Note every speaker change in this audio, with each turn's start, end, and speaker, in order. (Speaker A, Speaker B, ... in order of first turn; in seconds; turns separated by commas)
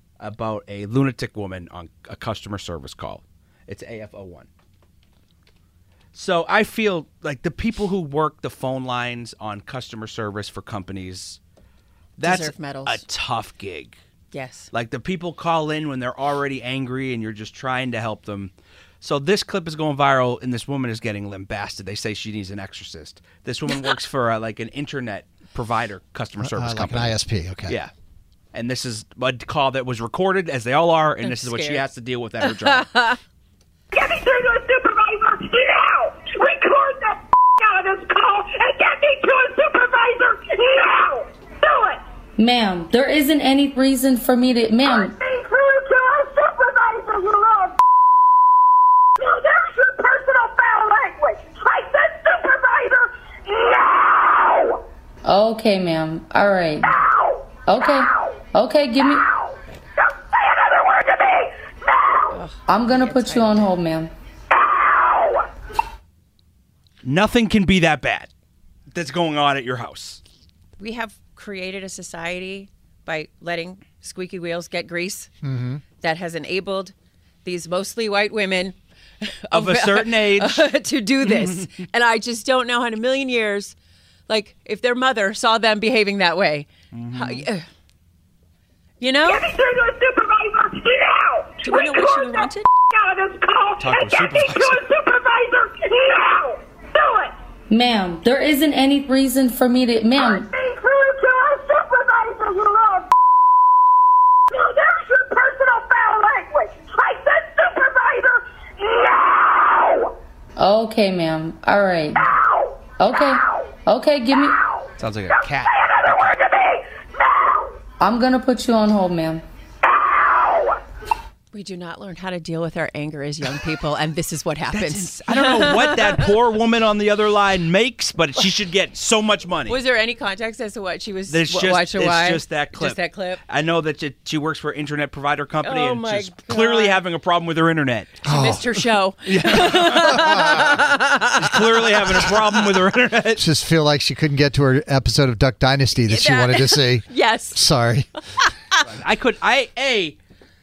Speaker A: 0.2-4.5, Speaker A: 6.1-11.4, Speaker A: 12.2-13.9, Speaker B: 12.2-13.0, Speaker B: 14.3-14.7, Speaker A: 14.7-27.9, Speaker C: 26.4-27.8, Speaker A: 28.5-32.9, Speaker B: 31.2-31.9, Speaker B: 32.4-33.2, Speaker D: 34.0-42.0, Speaker E: 42.4-45.1, Speaker D: 45.2-47.7, Speaker D: 49.2-54.7, Speaker E: 55.2-57.0, Speaker E: 57.7-59.3, Speaker D: 60.9-61.3, Speaker B: 62.3-63.7, Speaker E: 62.6-64.1, Speaker A: 67.0-68.3, Speaker A: 68.9-70.2, Speaker B: 70.8-75.3, Speaker C: 75.4-75.8, Speaker B: 76.0-83.7, Speaker A: 79.5-80.7, Speaker A: 81.2-81.6, Speaker B: 84.3-87.7, Speaker A: 86.9-87.5, Speaker B: 89.0-89.5, Speaker D: 89.3-92.3, Speaker B: 91.6-92.7, Speaker D: 92.9-97.3, Speaker A: 93.8-94.8, Speaker E: 97.7-100.5, Speaker D: 100.4-103.0, Speaker D: 104.5-109.9, Speaker E: 110.6-112.3, Speaker E: 113.0-114.6, Speaker A: 115.0-116.4, Speaker E: 118.0-119.4, Speaker B: 121.5-126.3, Speaker A: 124.7-129.8, Speaker B: 129.7-133.4, Speaker A: 131.3-138.2, Speaker B: 135.6-137.0, Speaker C: 138.2-138.9, Speaker B: 138.2-141.6, Speaker A: 139.3-140.7, Speaker C: 139.7-140.8, Speaker A: 141.3-143.4, Speaker B: 142.2-142.6, Speaker C: 143.4-148.1, Speaker B: 146.0-147.6, Speaker A: 148.8-150.2